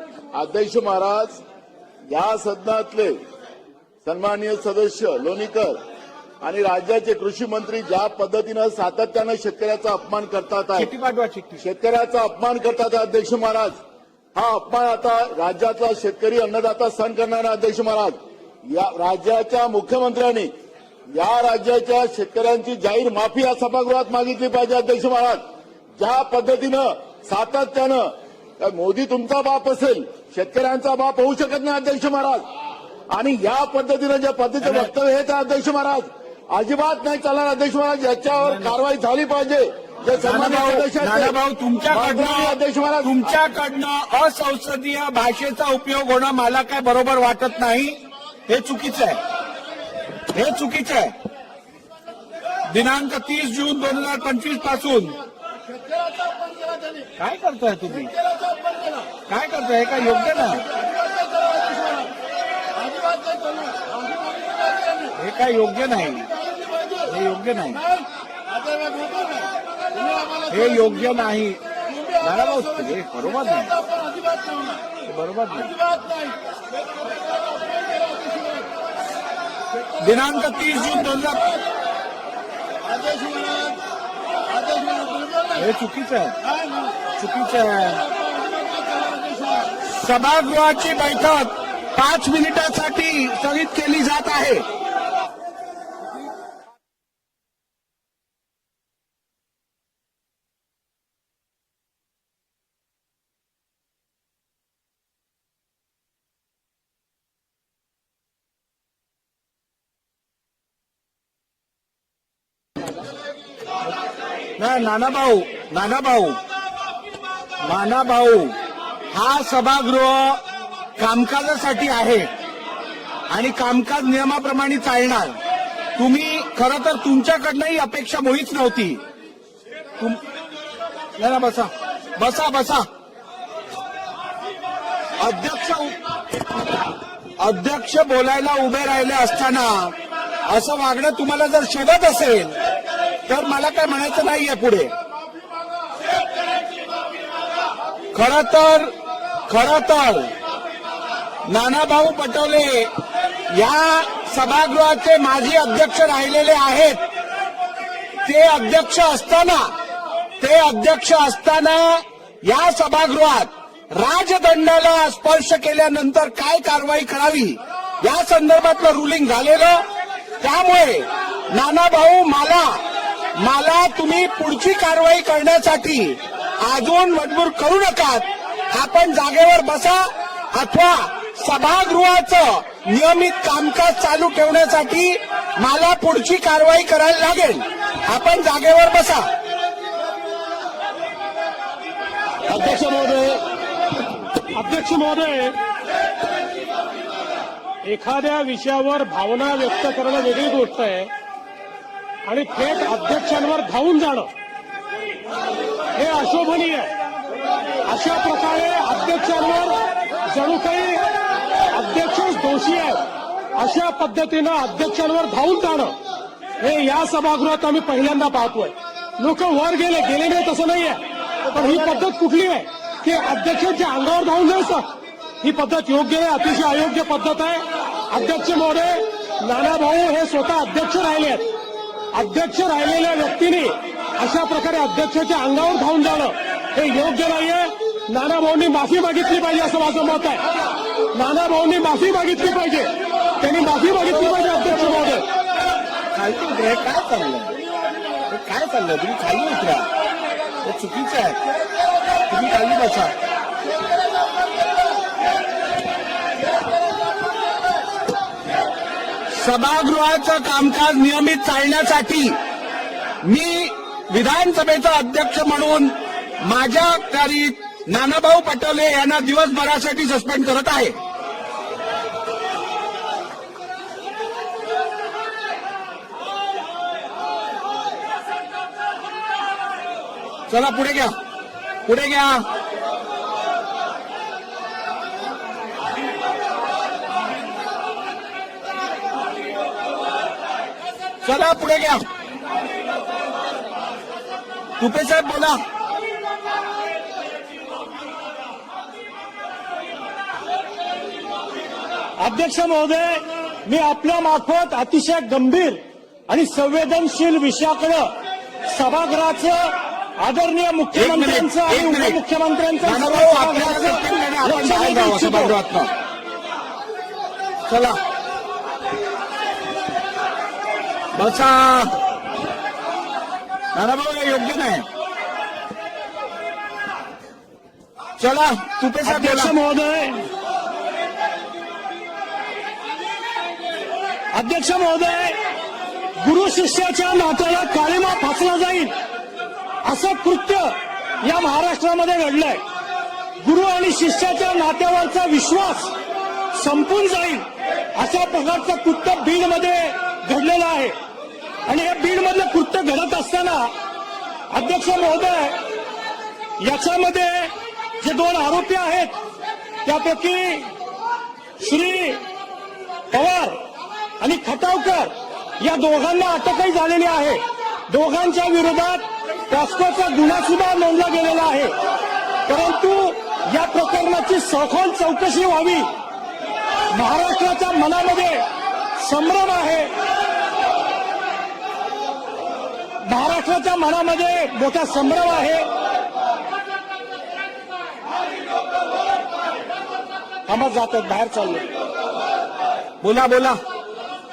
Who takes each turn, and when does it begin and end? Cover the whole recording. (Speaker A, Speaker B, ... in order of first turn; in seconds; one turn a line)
Speaker A: 0.3-1.4
Speaker A: 2.1-3.2
Speaker A: 4.0-5.8
Speaker A: 6.4-10.9
Speaker B: 10.8-11.6
Speaker A: 11.6-13.8
Speaker A: 14.3-18.2
Speaker A: 18.7-20.5
Speaker A: 21.1-25.4
Speaker A: 26.0-32.5
Speaker A: 33.1-41.4
Speaker B: 34.6-34.9
Speaker B: 38.4-38.8
Speaker B: 40.2-49.2
Speaker A: 41.9-43.4
Speaker B: 50.3-51.1
Speaker B: 52.7-55.2
Speaker B: 57.2-58.1
Speaker B: 59.3-60.7
Speaker A: 61.5-62.0
Speaker A: 62.9-64.4
Speaker B: 65.2-66.3
Speaker B: 67.0-67.8
Speaker A: 68.7-69.5
Speaker B: 70.5-71.6
Speaker B: 72.2-73.7
Speaker A: 74.4-74.6
Speaker B: 75.0-75.8
Speaker A: 78.1-78.6
Speaker B: 80.0-81.5
Speaker A: 82.9-83.8
Speaker A: 84.5-85.5
Speaker B: 85.6-86.4
Speaker B: 87.2-88.1
Speaker A: 88.4-89.7
Speaker B: 89.8-94.7
Speaker B: 114.6-116.4
Speaker B: 117.6-118.5
Speaker B: 119.1-120.4
Speaker B: 121.0-122.3
Speaker B: 123.3-125.4
Speaker B: 126.0-129.0
Speaker B: 131.2-132.9
Speaker B: 135.2-136.0
Speaker B: 137.4-139.9
Speaker B: 140.5-142.6
Speaker B: 143.3-144.9
Speaker B: 148.1-148.9
Speaker B: 149.5-150.3
Speaker B: 151.5-152.9
Speaker B: 153.5-157.0
Speaker B: 158.2-159.7
Speaker B: 160.4-169.8
Speaker B: 170.4-172.8
Speaker B: 173.4-189.3
Speaker A: 192.5-193.4
Speaker C: 194.5-195.6
Speaker C: 197.9-201.1
Speaker C: 202.3-204.3
Speaker C: 206.0-206.9
Speaker C: 207.9-209.8
Speaker C: 210.3-211.1
Speaker C: 211.7-213.0
Speaker D: 211.8-212.2
Speaker C: 213.6-216.0
Speaker C: 216.6-221.0
Speaker C: 221.6-224.9
Speaker D: 221.8-222.1
Speaker C: 225.4-231.5
Speaker C: 232.1-240.4
Speaker C: 241.1-245.2
Speaker B: 244.2-245.1
Speaker B: 246.1-247.6
Speaker B: 248.3-249.9
Speaker B: 250.6-251.4
Speaker B: 252.2-253.1
Speaker B: 259.3-262.4
Speaker B: 263.2-270.9
Speaker B: 280.5-281.1
Speaker B: 281.9-282.4
Speaker B: 291.2-292.0
Speaker B: 294.8-295.6
Speaker D: 302.2-308.1
Speaker D: 308.7-315.6
Speaker B: 310.9-312.2
Speaker B: 312.8-315.9
Speaker B: 317.7-318.0
Speaker B: 321.2-321.9
Speaker B: 323.8-324.9
Speaker B: 328.2-329.5
Speaker D: 329.0-330.3
Speaker D: 334.3-335.4
Speaker D: 336.2-339.0
Speaker D: 339.8-342.6
Speaker D: 343.4-345.9
Speaker D: 346.5-351.0
Speaker D: 351.7-353.8
Speaker D: 354.5-355.6
Speaker D: 356.6-359.2
Speaker D: 359.9-360.7
Speaker D: 361.6-362.3
Speaker D: 363.1-363.6
Speaker D: 364.2-371.8
Speaker D: 372.5-375.9
Speaker D: 376.9-378.5
Speaker D: 379.0-379.9
Speaker D: 383.1-385.7
Speaker D: 390.5-391.6
Speaker B: 393.0-393.6